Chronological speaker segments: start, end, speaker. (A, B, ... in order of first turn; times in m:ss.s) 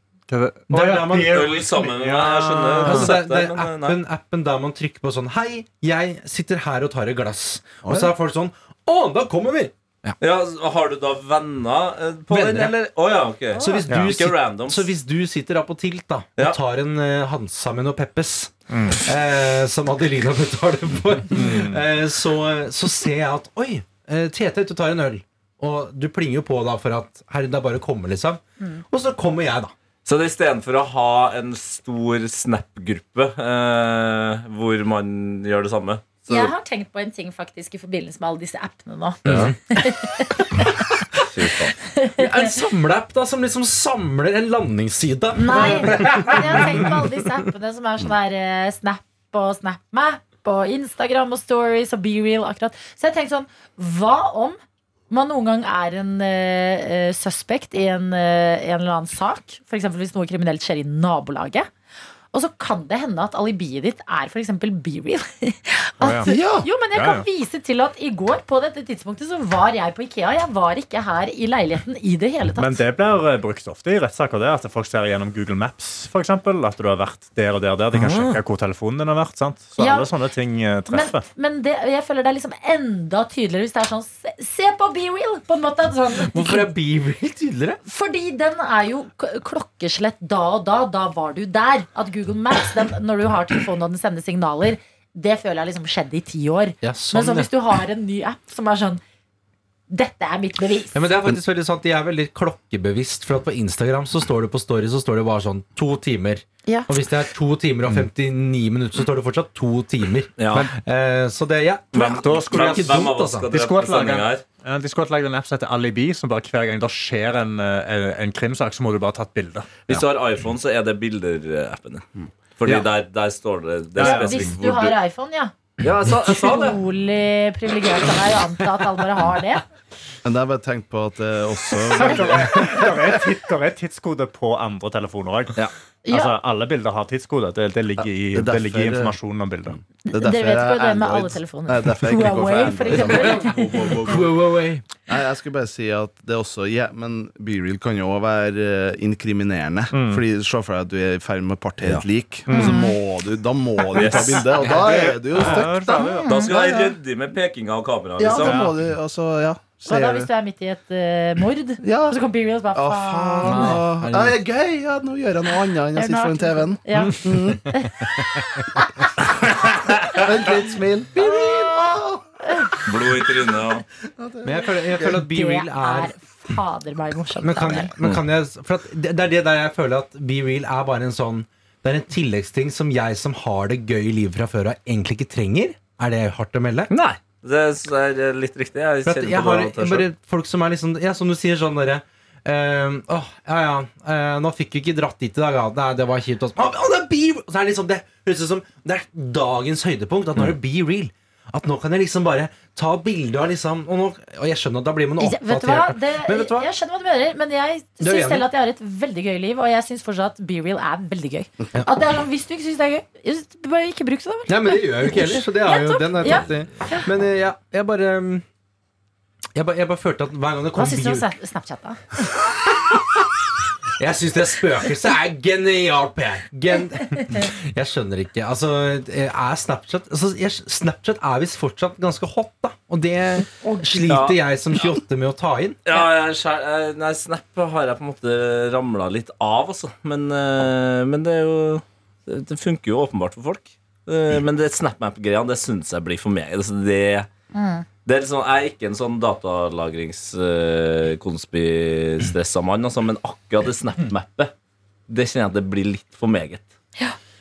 0:00.3-0:03.1 A
0:00.7-0:01.7 B
0:01.3-0:04.0 C
0:02.8-0:10.2 B
0:07.8-0:08.1 D
0:10.2-0:14.9 C
0:12.3-0:12.7 B
0:13.5-0:13.9 E
0:13.6-0:29.7 B
0:13.9-0:14.2 A
0:18.7-0:19.0 A
0:21.3-0:21.8 A
0:30.0-0:36.5 C
0:36.3-0:40.5 E
0:39.2-0:39.5 C
0:39.3-0:39.6 B
0:41.3-0:41.7 C
0:41.8-0:42.5 E
0:42.2-0:47.2 B
0:45.3-0:54.6 E
0:55.1-1:01.7 E
1:02.3-1:12.8 E
1:06.0-1:06.3 A
1:06.3-1:06.7 D
1:06.9-1:07.2 A
1:12.6-1:21.2 A
1:17.9-1:18.4 C
1:19.8-1:20.1 E
1:20.9-1:26.6 E
1:26.3-1:27.8 B
1:27.8-1:39.0 E
1:36.8-1:37.5 B
1:39.9-1:41.0 E
1:40.9-1:53.5 B
1:46.6-1:46.9 E
1:50.4-1:50.7 C
1:51.9-1:54.4 C
1:52.0-1:53.0 A
1:53.5-1:59.8 A
1:59.8-2:02.1 C
2:02.6-2:05.0 C
2:04.0-2:04.5 A
2:04.0-2:05.5 E
2:05.8-2:06.8 C
2:06.3-2:09.6 E
2:10.2-2:13.2 D
2:11.8-2:19.8 A
2:16.0-2:16.3 E
2:18.3-2:19.2 D
2:20.0-2:24.0 E
2:20.1-2:24.4 D
2:24.0-2:24.8 B
2:25.0-2:37.0 D
2:29.9-2:30.2 A
2:32.5-2:32.8 A
2:32.5-2:32.9 E
2:33.9-2:35.1 C
2:34.6-2:36.3 A
2:35.8-2:36.5 E
2:36.2-2:38.7 C
2:38.2-2:40.3 D
2:38.3-2:38.8 A
2:39.8-2:43.8 E
2:41.8-2:42.2 D
2:42.7-2:47.9 D
2:43.4-2:44.4 B
2:45.9-2:49.1 E
2:50.1-2:52.8 D
2:51.2-2:51.7 E
2:52.4-2:52.7 E
2:52.8-2:53.8 C
2:54.2-2:55.2 D
2:54.4-2:56.1 B
2:55.2-2:57.9 E
2:57.4-3:06.9 B
3:06.9-3:10.1 C
3:09.0-3:26.7 B
3:25.2-3:37.1 E
3:28.0-3:28.5 B
3:34.5-3:38.4 B
3:39.5-3:41.3 B
3:40.7-3:42.0 E
3:44.0-3:55.8 B
3:47.1-3:47.4 E
3:53.6-3:54.1 E
3:54.0-3:54.4 C
3:55.8-4:07.3 C
4:07.5-4:07.8 E
4:08.0-4:14.5 C
4:15.1-4:16.7 C